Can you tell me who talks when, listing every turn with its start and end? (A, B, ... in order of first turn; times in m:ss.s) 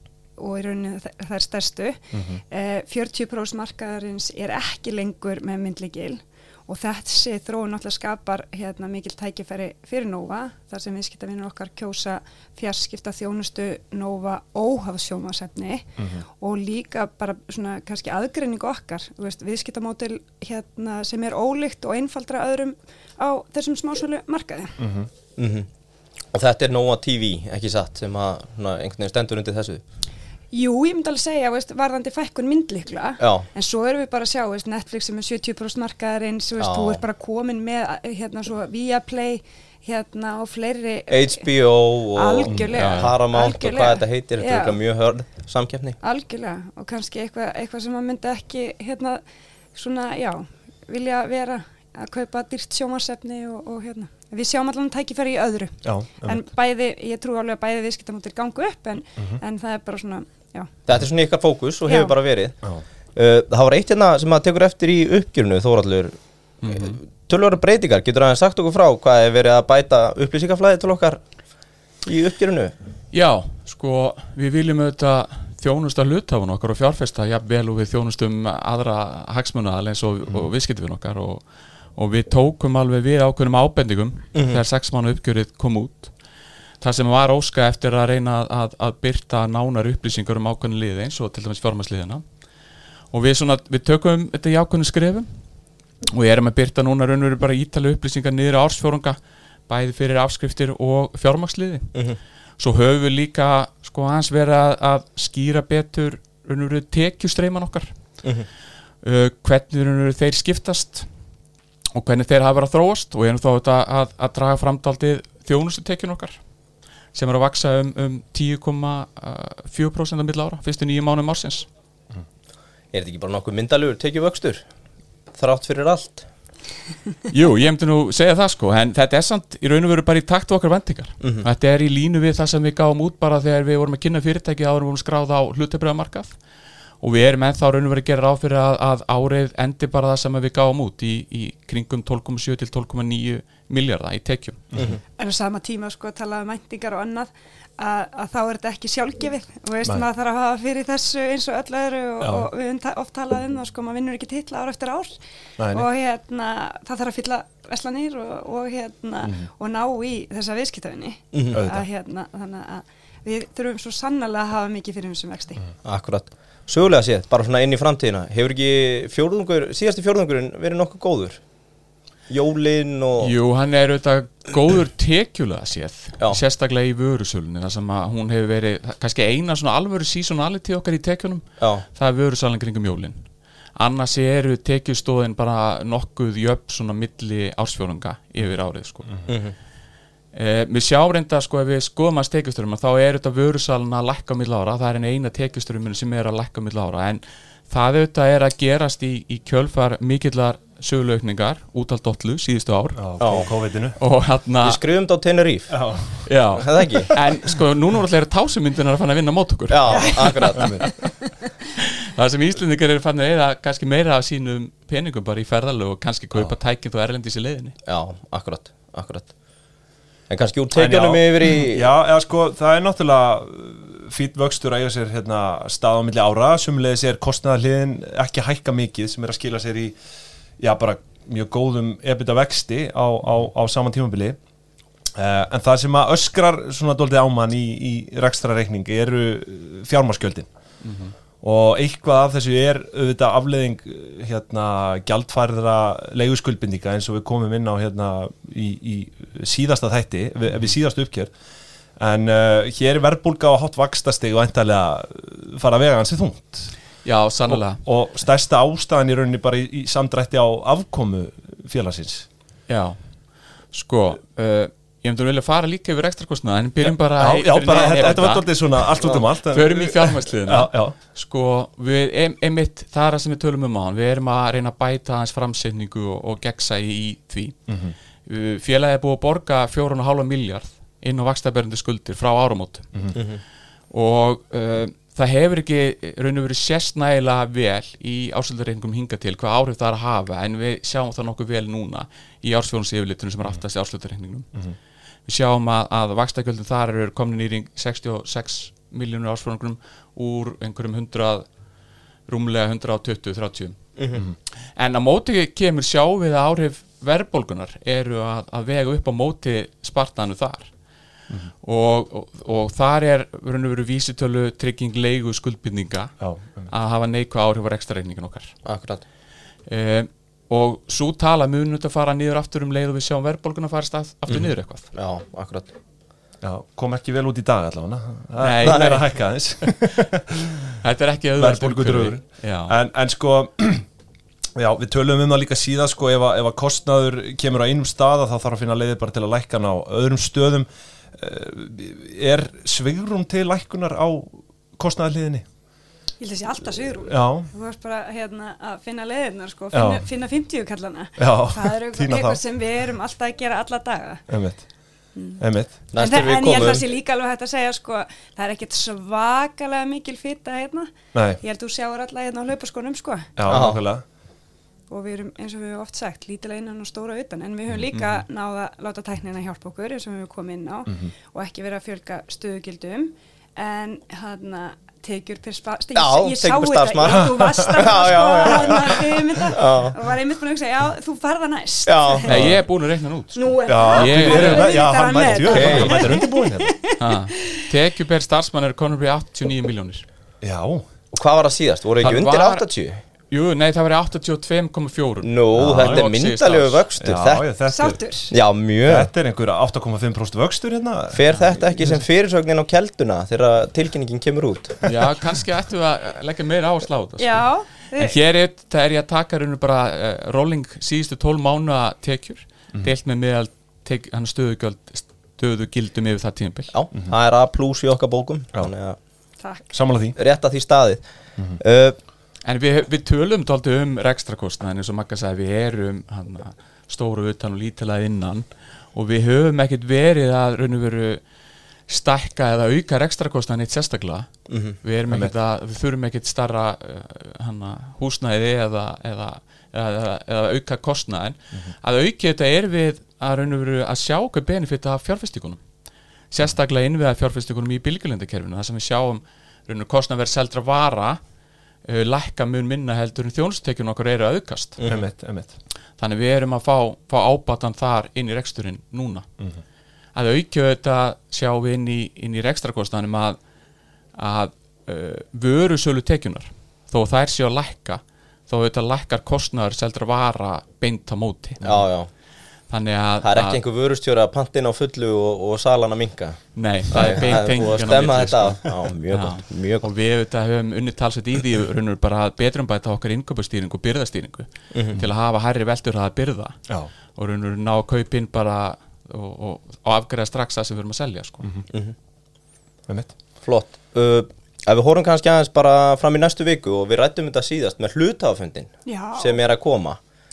0:00.4-0:24.8 A
0:02.1-0:02.4 B
0:16.0-0:16.2 B
0:24.8-0:25.1 B
0:25.4-0:25.7 C
0:26.3-0:29.8 C
0:30.5-0:41.5 A
0:33.2-0:33.4 C
0:36.6-0:37.0 C
0:41.1-0:46.0 C
0:42.1-0:44.8 A
0:42.7-0:43.2 D
0:46.0-0:49.2 A
0:49.7-1:00.7 A
0:55.8-0:56.4 B
1:00.9-1:02.6 C
1:01.8-1:02.1 A
1:03.1-1:06.2 C
1:06.6-1:07.0 D
1:06.7-1:11.2 C
1:12.0-1:12.7 C
1:13.1-1:21.4 D
1:22.0-1:26.1 D
1:24.3-1:24.6 C
1:26.8-1:32.2 D
1:33.1-1:35.3 D
1:36.1-1:39.2 D
1:39.7-1:41.9 D
1:42.6-1:47.9 D
1:49.0-1:51.0 D
1:51.9-1:56.4 D
1:57.1-2:01.7 D
2:02.9-2:04.6 C
2:05.3-2:06.2 C
2:07.3-2:16.3 D
2:11.2-2:11.5 C
2:17.0-2:24.6 D
2:24.7-2:25.0 B
2:25.2-2:35.2 A
2:32.2-2:32.5 B
2:35.6-2:35.9 B
2:35.7-2:45.6 A
2:41.3-2:41.6 C
2:41.5-2:41.8 B
2:45.8-2:51.4 C
2:52.3-2:53.3 C
2:53.2-3:03.2 D
3:03.8-3:09.1 D
3:09.3-3:09.5 C
3:10.3-3:23.0 D
3:23.0-3:24.0 B
3:23.2-3:23.5 C
3:24.0-3:24.8 D
3:24.6-3:25.8 C
3:25.7-3:26.2 B
3:26.2-3:30.4 D
3:26.6-3:27.1 C
3:29.7-3:30.8 C
3:29.9-3:31.3 A
3:30.5-3:30.8 B
3:31.8-3:37.8 D
3:37.8-3:39.3 C
3:40.3-3:41.9 C
3:40.7-3:49.9 B
3:50.6-3:54.4 B
3:55.1-4:00.5 B
4:00.8-4:01.1 D
4:01.4-4:11.3 B
4:12.0-4:16.7 B
4:17.0-4:17.8 D
4:17.5-4:22.3 B
4:22.7-4:23.0 D
4:23.7-4:37.6 D
4:26.8-4:31.0 B
4:37.7-4:37.9 B
4:38.2-4:43.1 D
4:43.1-4:43.4 C
4:43.9-4:54.5 D
4:55.3-5:01.4 D
5:02.3-5:03.8 D
5:04.0-5:04.2 C
5:04.8-5:10.7 D
5:11.6-5:16.1 D
5:16.2-5:16.7 B
5:16.7-5:18.5 D
5:18.6-5:19.0 C
5:19.7-5:24.9 D
5:24.3-5:25.7 C
5:26.4-5:30.8 B
5:28.4-5:29.0 D
5:28.6-5:29.0 C
5:30.8-5:32.7 D
5:31.4-5:33.8 B
5:34.6-5:45.4 B
5:46.2-5:54.2 A
5:47.1-5:47.5 B
5:49.7-5:50.0 B
5:51.2-5:52.4 B
5:54.3-5:54.6 B
5:55.1-5:55.4 A
5:55.4-5:55.7 B
5:55.9-5:56.9 C
5:55.9-6:03.3 A
6:01.1-6:01.4 B
6:03.4-6:04.0 B
6:03.5-6:03.8 C
6:04.9-6:22.4 A
6:15.9-6:20.0 C
6:17.1-6:17.9 B
6:18.5-6:18.9 B
6:21.8-6:22.5 C
6:22.2-6:24.8 D
6:22.3-6:22.6 B
6:23.3-6:27.6 A
6:23.6-6:26.8 B
6:25.4-6:26.2 C
6:27.0-6:30.0 D
6:30.4-6:30.8 B
6:31.1-6:33.0 C
6:32.0-6:32.7 D
6:33.3-6:36.8 D
6:35.2-6:37.4 C
6:35.6-6:36.0 B
6:37.0-6:38.0 B
6:37.7-6:38.3 A
6:38.3-6:39.1 C
6:38.8-6:42.0 B
6:41.1-6:44.8 C
6:44.8-6:47.4 D
6:47.2-6:48.2 A
6:48.0-6:56.7 D
6:56.7-6:59.0 C
6:59.4-6:59.6 A
6:59.7-7:00.2 B
7:00.2-7:01.0 C
7:01.6-7:02.0 C
7:02.4-7:11.2 D
7:11.9-7:14.3 D
7:14.5-7:14.8 C
7:14.8-7:25.6 D
7:15.1-7:15.3 B
7:26.3-7:31.2 D
7:31.8-7:34.8 D
7:34.9-7:35.5 B
7:36.0-7:39.2 D
7:40.1-7:43.4 D
7:44.1-7:51.8 D
7:51.6-7:52.1 C
7:52.7-7:53.6 D
7:53.2-7:59.9 C
7:56.5-8:06.6 D
8:04.7-8:05.0 C
8:07.1-8:11.5 D
8:13.4-8:20.0 C
8:18.8-8:19.4 A